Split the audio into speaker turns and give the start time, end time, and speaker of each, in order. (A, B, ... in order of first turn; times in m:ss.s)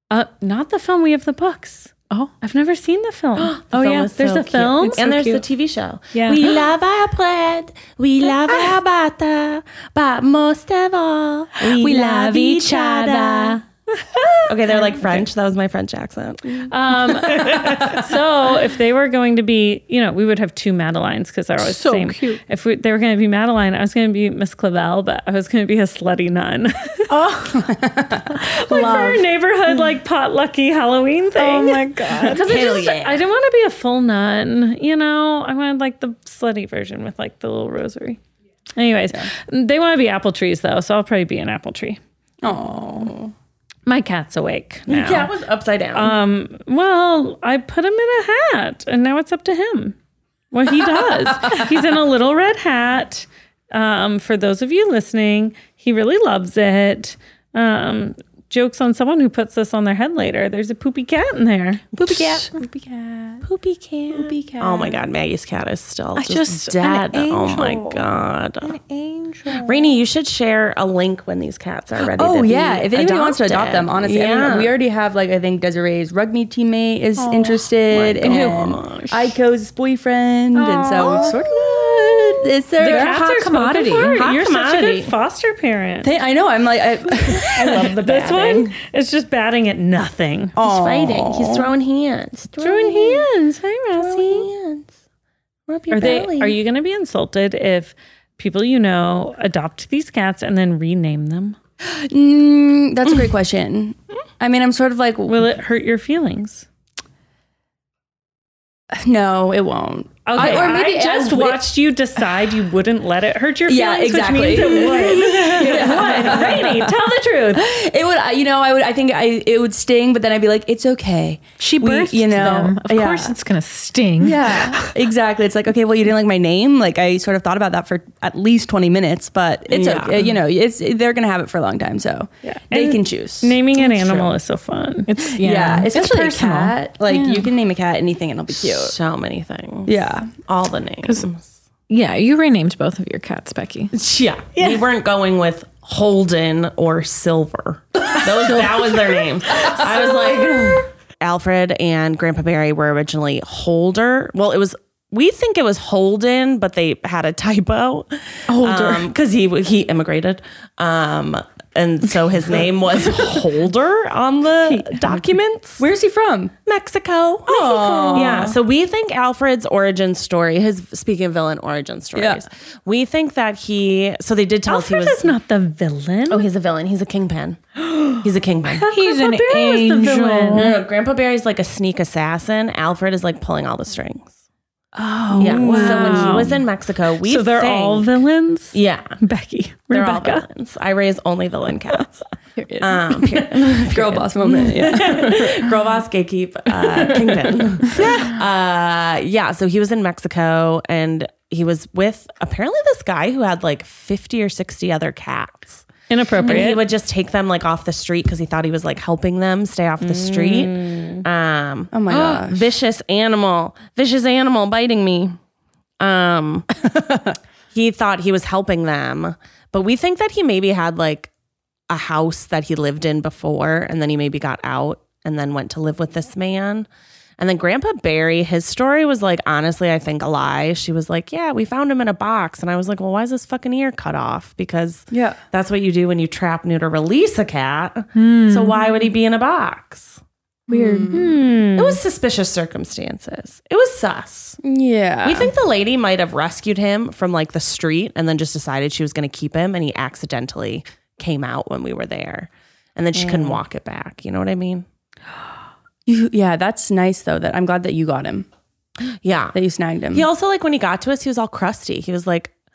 0:00.1-0:05.4 A
0:03.4-0:13.6 B
0:05.1-0:05.4 C
0:06.1-0:06.5 C
0:11.6-0:13.6 C
0:14.1-0:14.4 A
0:14.5-0:16.7 B
0:16.7-0:27.1 A
0:17.2-0:18.0 B
0:21.6-0:22.4 C
0:27.1-0:27.7 C
0:27.5-0:28.4 D
0:28.3-0:29.3 C
0:28.4-0:38.2 A
0:31.4-0:32.4 C
0:32.4-0:33.2 B
0:38.8-0:42.0 A
0:42.4-0:43.3 D
0:43.9-0:45.3 A
0:44.9-0:46.2 B
0:45.9-0:50.0 A
0:50.5-1:02.0 A
1:02.0-1:02.5 B
1:02.0-1:02.6 C
1:02.6-1:03.4 D
1:03.4-1:08.8 B
1:04.1-1:05.0 D
1:06.2-1:08.1 C
1:08.6-1:09.8 C
1:09.5-1:14.7 B
1:12.0-1:23.2 D
1:17.2-1:17.7 C
1:17.9-1:19.4 B
1:20.6-1:21.4 C
1:21.0-1:21.3 A
1:21.0-1:21.4 B
1:22.8-1:26.1 A
1:22.8-1:24.3 C
1:24.1-1:25.1 B
1:26.0-1:28.0 D
1:27.5-1:30.6 A
1:27.5-1:28.7 B
1:30.6-1:31.7 D
1:30.6-1:33.3 B
1:32.6-1:34.5 A
1:34.0-1:34.9 B
1:35.7-1:36.6 B
1:35.9-1:41.6 A
1:41.8-1:45.5 D
1:45.3-1:46.7 A
1:48.9-1:51.6 D
1:50.3-1:57.7 A
1:53.7-1:56.9 D
1:55.6-1:56.4 B
1:57.5-2:03.4 D
2:01.6-2:05.0 C
2:04.2-2:13.6 D
2:09.7-2:10.4 B
2:12.4-2:15.1 A
2:15.1-2:17.5 C
2:15.4-2:19.0 D
2:18.6-2:21.5 B
2:19.9-2:20.3 D
2:21.9-2:24.0 C
2:23.9-2:45.9 B
2:38.5-2:39.0 C
2:44.7-2:45.3 A
2:45.8-2:46.6 D
2:46.6-2:55.3 B
2:47.5-2:48.6 D
2:47.7-2:48.5 C
2:52.2-2:52.4 D
2:54.7-2:56.5 A
2:56.3-2:57.6 B
2:58.2-2:58.9 B
2:58.8-3:00.8 A
2:58.9-3:00.8 C
3:00.5-3:04.3 B
3:05.0-3:06.6 A
3:05.3-3:06.5 C
3:05.4-3:08.1 B
3:07.2-3:10.5 A
3:08.7-3:09.2 B
3:09.9-3:12.2 B
3:12.6-3:15.7 D
3:12.8-3:25.8 B
3:16.8-3:18.1 D
3:26.1-3:26.8 A
3:26.4-3:35.4 B
3:30.0-3:31.2 A
3:31.9-3:32.7 D
3:36.0-3:36.7 B
3:37.7-3:41.3 B
3:41.9-4:00.2 B
3:55.1-3:55.4 D
3:58.2-3:58.9 C
4:00.7-4:01.1 C
4:00.7-4:01.4 D
4:01.1-4:02.0 A
4:01.8-4:04.6 B
4:04.6-4:05.5 D
4:05.2-4:14.8 B
4:13.2-4:13.5 D
4:16.1-4:18.5 D
4:19.2-4:19.6 B
4:19.6-4:20.3 D
4:20.1-4:22.5 B